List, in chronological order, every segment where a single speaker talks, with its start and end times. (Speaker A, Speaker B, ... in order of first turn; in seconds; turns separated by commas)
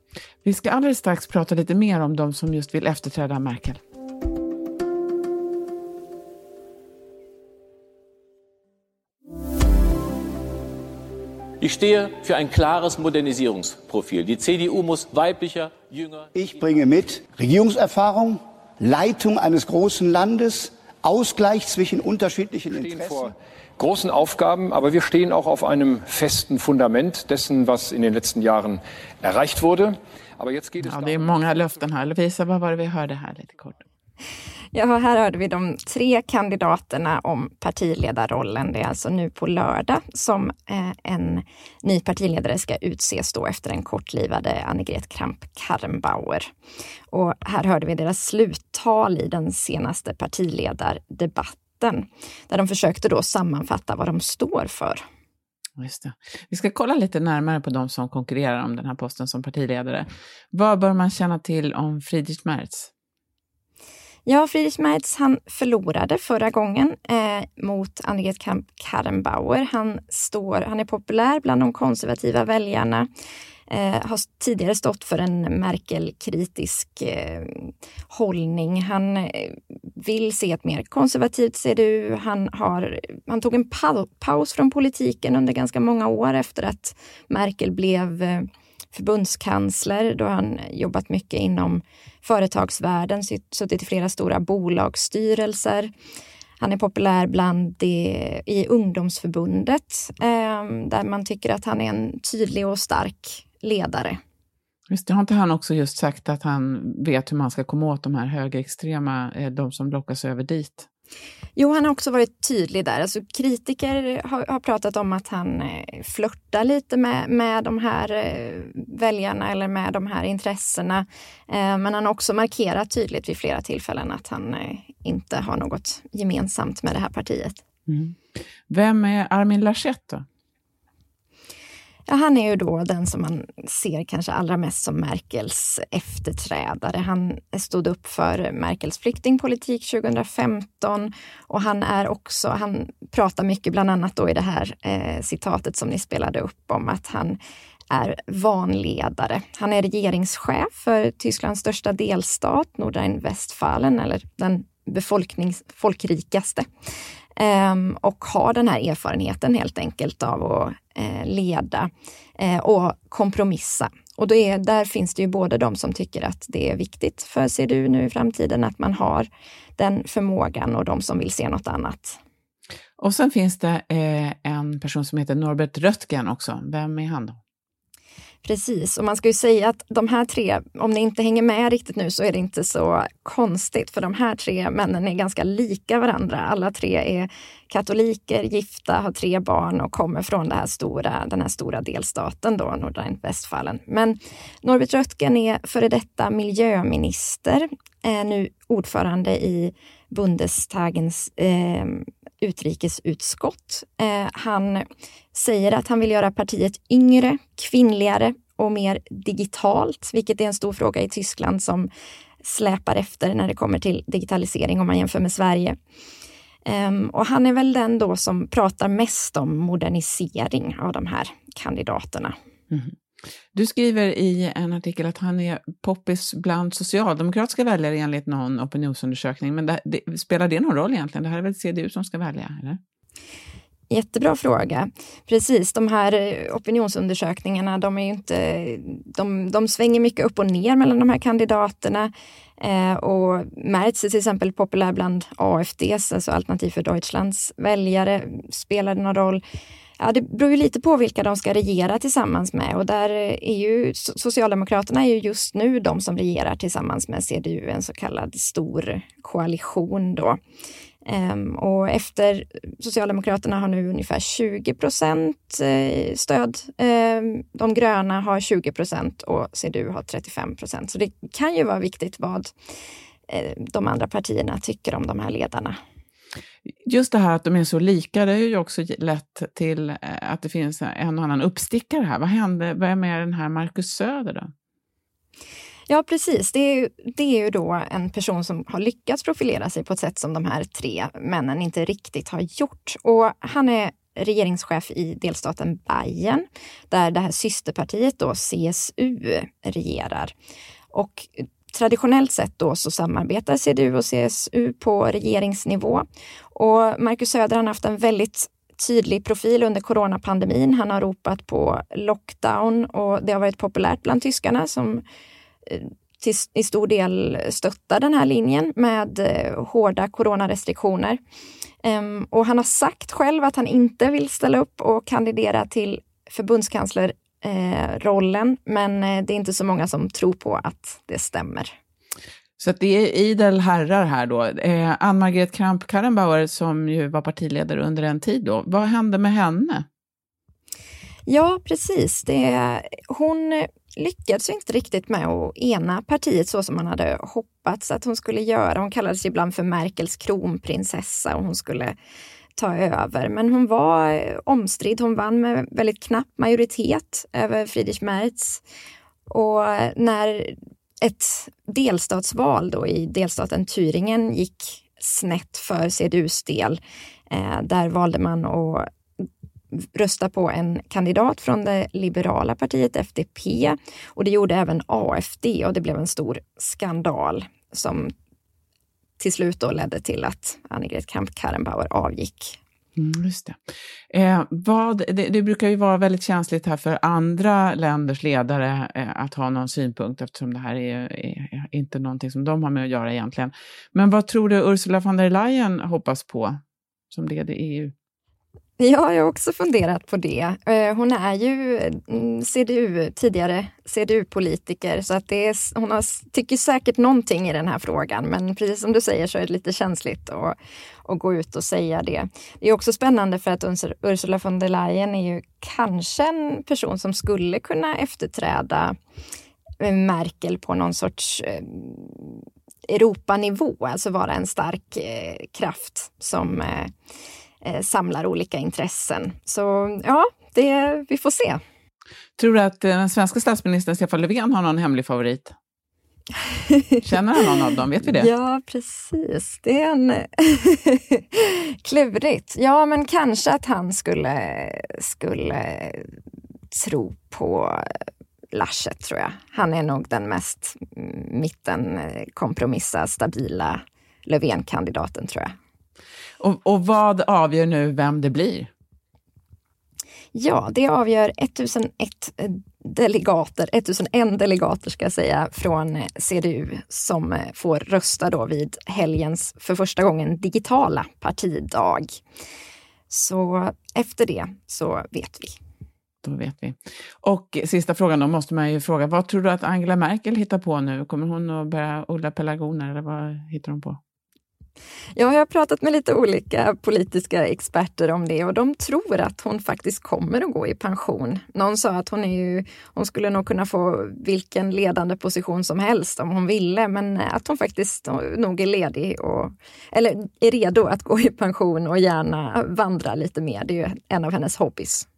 Speaker A: 0.4-3.8, Speaker B: 11.6-16.4, Speaker C: 16.3-23.3, Speaker D: 22.7-23.3, Speaker D: 23.8-31.0, Speaker A: 30.8-33.8, Speaker E: 34.7-46.5, Speaker E: 47.1-55.0, Speaker A: 55.8-62.9, Speaker E: 64.2-73.1, Speaker E: 73.7-95.9, Speaker E: 96.6-104.2, Speaker A: 104.9-110.8, Speaker E: 111.5-127.6, Speaker A: 127.9-128.2, Speaker A: 128.7-130.2, Speaker E: 132.1-147.4, Speaker E: 147.9-156.7, Speaker E: 157.4-172.2, Speaker A: 173.0-177.4, Speaker E: 178.4-211.9, Speaker E: 212.4-215.8, Speaker E: 216.7-222.3, Speaker A: 223.5-232.8, Speaker E: 233.9-249.4, Speaker E: 250.0-260.4, Speaker E: 261.0-272.5, Speaker E: 273.3-275.8, Speaker A: 276.9-284.5, Speaker E: 285.9-300.3, Speaker E: 300.9-315.0, Speaker E: 315.6-321.2, Speaker E: 321.8-331.7, Speaker A: 332.6-339.8, Speaker E: 341.3-351.9, Speaker E: 352.6-358.6, Speaker E: 359.3-368.9, Speaker E: 369.7-378.1, Speaker E: 379.2-382.6, Speaker A: 382.9-383.6, Speaker A: 384.1-396.6, Speaker A: 397.1-397.9, Speaker E: 398.8-418.9, Speaker E: 419.8-426.9, Speaker E: 427.6-431.6, Speaker A: 432.4-435.5, Speaker E: 436.5-437.0, Speaker A: 437.0-438.3, Speaker E: 438.0-446.1, Speaker E: 446.7-448.0, Speaker E: 448.5-455.5, Speaker A: 456.4-458.7, Speaker E: 460.3-472.2, Speaker E: 473.1-475.6, Speaker A: 476.2-484.0, Speaker E: 485.1-505.1